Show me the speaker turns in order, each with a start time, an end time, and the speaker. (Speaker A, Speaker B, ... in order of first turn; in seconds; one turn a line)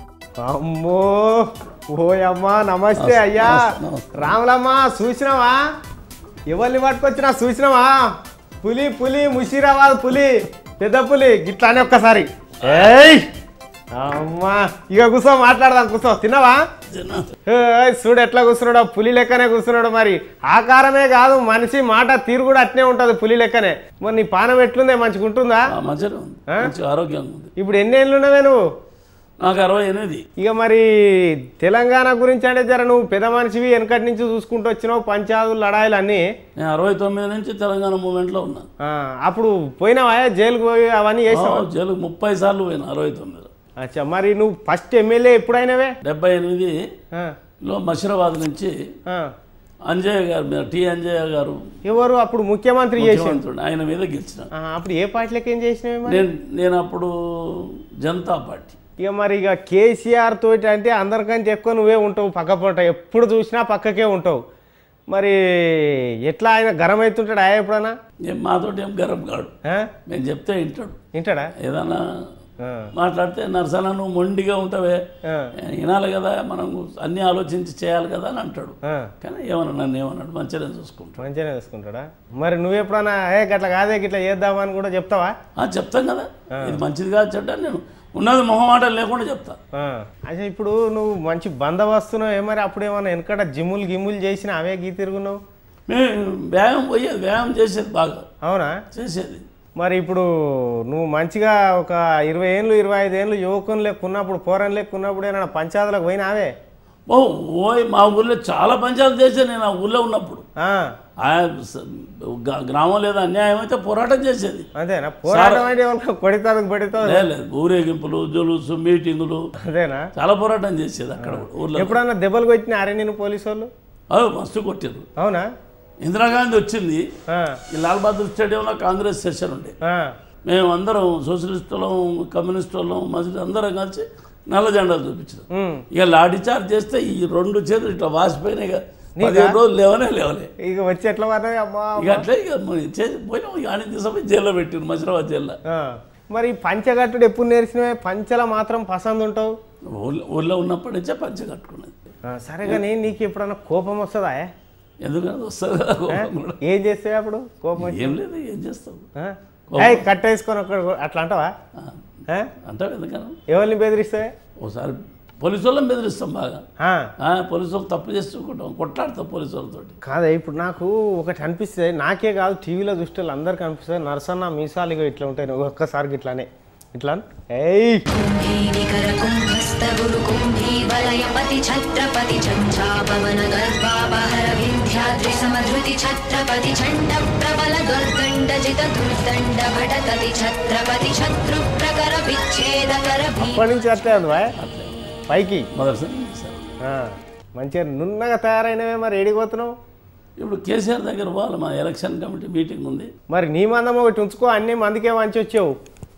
Speaker A: 0.4-3.6
Speaker B: 2.9-4.4
Speaker A: 4.2-5.6
Speaker A: 6.5-8.0
Speaker A: 8.6-13.2
Speaker A: 13.9-16.6
Speaker B: 16.9-17.3
Speaker A: 17.5-25.7
Speaker B: 25.7-27.5
Speaker A: 27.6-28.6
Speaker B: 29.4-30.2
Speaker A: 30.4-36.3
Speaker B: 36.6-38.6
Speaker A: 38.8-41.6
Speaker B: 41.3-43.5
Speaker A: 43.8-45.9
Speaker B: 46.0-46.7
Speaker B: 47.6-48.7
Speaker B: 49.9-51.6
Speaker A: 51.8-53.4
Speaker B: 53.0-54.5
Speaker A: 54.6-56.2
Speaker B: 56.1-58.8
Speaker A: 59.0-64.4
Speaker A: 65.1-67.9
Speaker B: 68.3-69.5
Speaker A: 69.7-69.9
Speaker B: 70.1-71.0
Speaker A: 71.1-71.5
Speaker B: 71.6-72.2
Speaker A: 72.6-72.9
Speaker B: 72.9-75.0
Speaker A: 75.2-75.5
Speaker B: 75.6-81.2
Speaker A: 78.8-79.1
Speaker A: 81.2-85.3
Speaker B: 85.6-89.6
Speaker A: 89.7-95.4
Speaker B: 95.9-98.2
Speaker A: 98.4-98.8
Speaker B: 98.9-99.4
Speaker A: 99.8-106.5
Speaker B: 107.1-110.4
Speaker A: 110.6-110.9
Speaker B: 111.2-114.7
Speaker A: 114.8-117.2
Speaker B: 115.3-115.7
Speaker B: 117.0-119.4
Speaker A: 119.6-120.1
Speaker B: 120.2-122.0
Speaker A: 121.2-123.7
Speaker B: 124.1-125.0
Speaker A: 125.2-125.5
Speaker B: 126.0-127.0
Speaker A: 127.3-127.6
Speaker B: 127.7-129.7
Speaker A: 129.8-130.1
Speaker B: 130.4-140.5
Speaker A: 135.5-135.8
Speaker A: 139.2-139.6
Speaker A: 140.6-142.2
Speaker B: 142.0-145.6
Speaker A: 145.7-149.5
Speaker B: 149.9-152.0
Speaker A: 152.2-154.5
Speaker B: 155.0-156.6
Speaker A: 156.1-158.2
Speaker B: 157.8-159.1
Speaker A: 159.2-161.5
Speaker B: 159.7-160.1
Speaker B: 161.8-162.0
Speaker B: 162.6-163.4
Speaker A: 163.5-164.3
Speaker B: 164.6-166.6
Speaker A: 166.8-167.1
Speaker B: 167.2-169.9
Speaker A: 170.0-178.0
Speaker C: 178.1-193.7
Speaker A: 193.4-194.5
Speaker B: 194.6-195.1
Speaker A: 195.3-195.7
Speaker B: 195.7-196.7
Speaker A: 196.8-199.7
Speaker B: 200.4-203.1
Speaker A: 203.3-205.7